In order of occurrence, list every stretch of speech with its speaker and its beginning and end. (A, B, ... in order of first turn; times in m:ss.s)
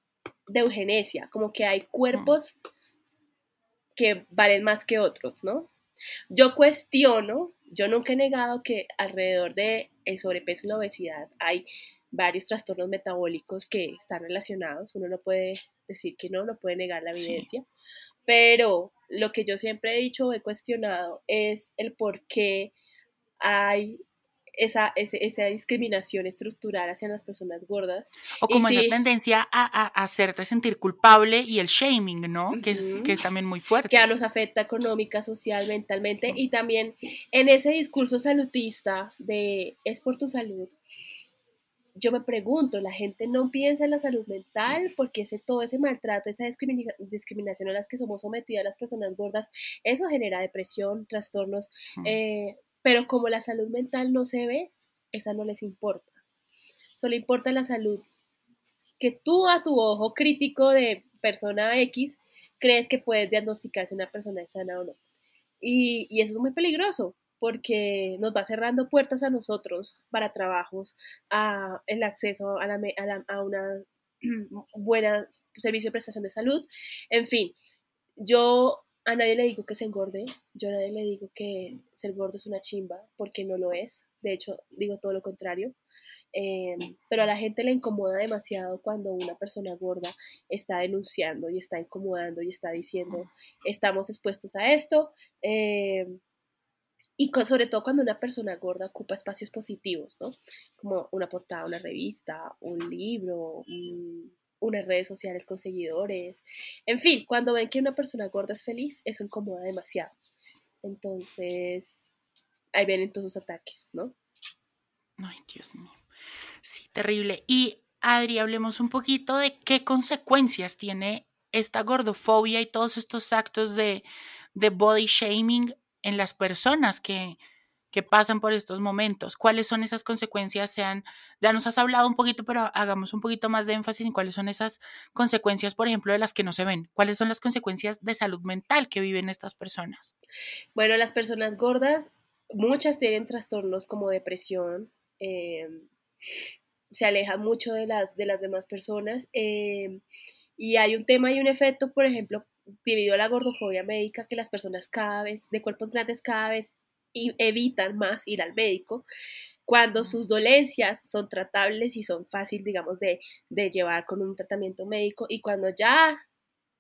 0:00.5-0:02.6 A
0:04.0-0:05.7 A
0:06.3-0:17.7 A
0:17.2-0:17.5 B
0:18.3-0:22.7 A
0:23.4-0:24.0 A
0:24.6-0:29.0 A
0:28.4-0:34.1 B
0:32.5-0:33.2 A
0:33.9-0:40.8 A
0:42.0-0:56.1 A
0:57.0-0:58.0 A
0:59.0-1:05.0 A
1:05.6-1:17.6 A
1:18.2-1:25.8 A
1:26.3-1:36.2 A
1:37.2-1:50.1 A
1:50.8-1:52.1 A
1:52.8-1:54.1 A
1:55.2-1:56.0 B
1:56.6-2:04.0 B
2:04.6-2:07.4 B
2:07.9-2:20.1 B
2:20.8-2:25.9 A
2:26.9-2:30.0 A
2:30.6-2:39.0 A
2:39.7-2:46.2 A